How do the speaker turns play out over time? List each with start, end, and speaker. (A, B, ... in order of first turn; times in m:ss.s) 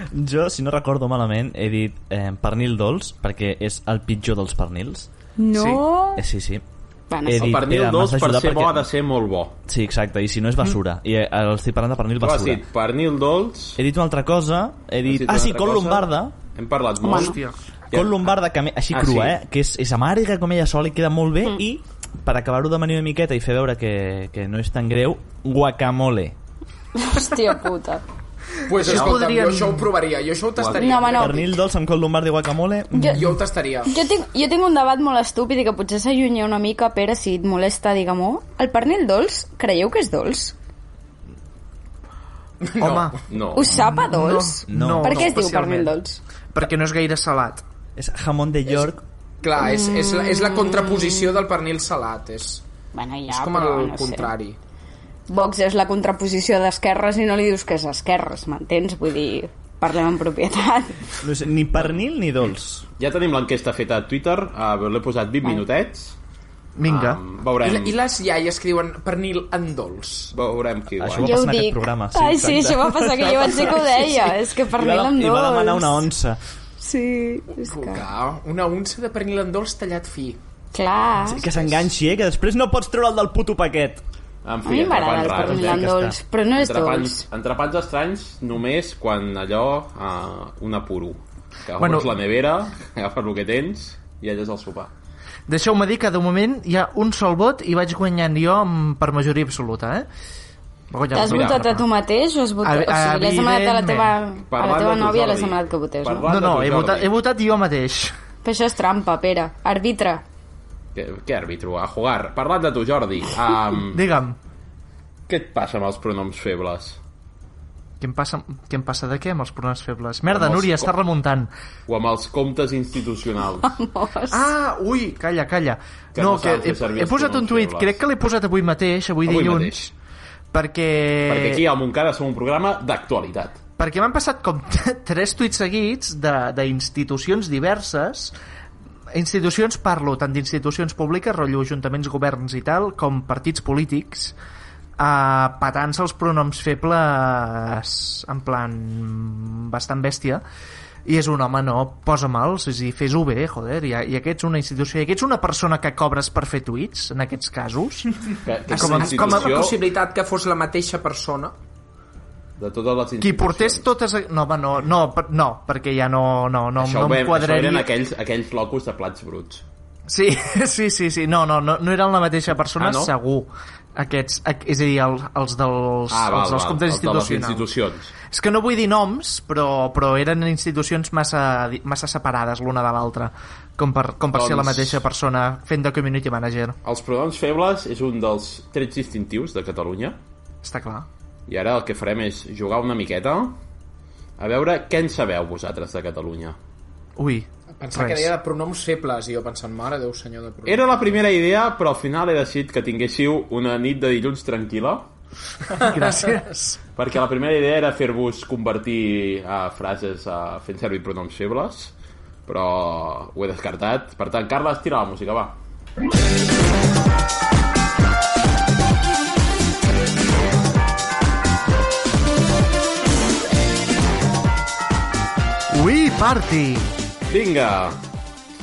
0:00.1-0:05.1 A
0:05.4-0:06.2 B
0:05.5-0:05.8 C
0:06.2-0:06.6 A
0:07.1-0:07.5 B
0:07.2-0:08.9 A
0:07.4-0:09.5 D
0:09.7-0:12.6 A
0:12.2-0:13.8 D
0:13.8-0:16.3 A
0:15.0-0:17.4 D
0:17.0-0:17.4 B
0:17.1-0:17.5 C
0:17.9-0:18.2 D
0:17.9-0:26.3 A
0:18.9-0:19.4 D
0:27.0-0:28.0 B
0:28.7-0:31.5 E
0:28.8-0:29.9 C
0:28.8-0:29.2 D
0:30.6-0:31.0 D
0:30.8-0:31.4 B
0:31.2-0:33.3 A
0:32.9-0:33.2 B
0:33.1-0:33.9 E
0:33.8-0:40.5 B
0:42.6-0:43.2 E
0:42.8-0:43.2 C
0:43.3-0:43.7 D
0:43.6-0:46.2 B
0:43.7-0:45.9 C
0:44.7-0:45.3 A
0:46.5-0:47.6 C
0:48.0-0:49.0 A
0:49.4-0:52.6 E
0:49.6-0:51.4 B
0:52.9-0:54.3 B
0:53.3-0:54.6 E
0:55.3-1:01.2 B
1:01.2-1:02.8 A
1:03.0-1:06.1 D
1:06.8-1:07.2 C
1:06.8-1:08.0 D
1:07.6-1:10.3 E
1:10.3-1:11.4 D
1:11.0-1:16.4 A
1:11.2-1:16.1 B
1:16.8-1:18.0 B
1:17.6-1:20.4 E
1:20.7-1:21.4 B
1:21.2-1:24.0 A
1:21.4-1:21.8 E
1:24.4-1:25.9 D
1:24.6-1:27.2 B
1:25.3-1:26.2 A
1:26.5-1:34.9 D
1:31.8-1:32.1 C
1:35.5-1:40.1 C
1:40.9-1:41.8 C
1:41.1-1:46.2 B
1:41.2-1:41.6 D
1:42.6-1:44.1 C
1:44.5-1:47.1 D
1:46.2-1:48.1 C
1:48.4-1:50.2 B
1:50.9-1:54.0 D
1:53.9-1:54.4 C
1:55.3-1:57.0 D
1:58.0-2:01.5 C
2:00.3-2:00.9 D
2:01.9-2:03.8 D
2:03.8-2:04.4 B
2:04.3-2:09.9 C
2:06.1-2:08.0 D
2:09.2-2:09.9 D
2:10.5-2:11.6 C
2:11.3-2:13.6 D
2:13.8-2:18.3 C
2:19.1-2:24.3 C
2:25.0-2:30.4 C
2:31.0-2:38.1 C
2:38.4-2:39.8 D
2:38.7-2:41.5 E
2:38.7-2:39.6 C
2:42.6-2:43.9 D
2:43.2-2:47.9 C
2:46.8-2:49.6 D
2:50.1-2:57.7 C
2:52.8-2:53.1 D
2:56.1-2:58.1 D
2:58.3-3:06.8 C
3:04.3-3:05.0 D
3:06.8-3:10.2 D
3:10.6-3:11.1 C
3:11.5-3:13.6 D
3:14.4-3:16.6 D
3:17.2-3:18.3 C
3:17.8-3:21.2 E
3:20.6-3:25.1 D
3:25.7-3:26.8 C
3:27.0-3:31.9 D
3:32.4-3:35.5 D
3:45.7-3:46.9 C
3:47.3-3:48.0 D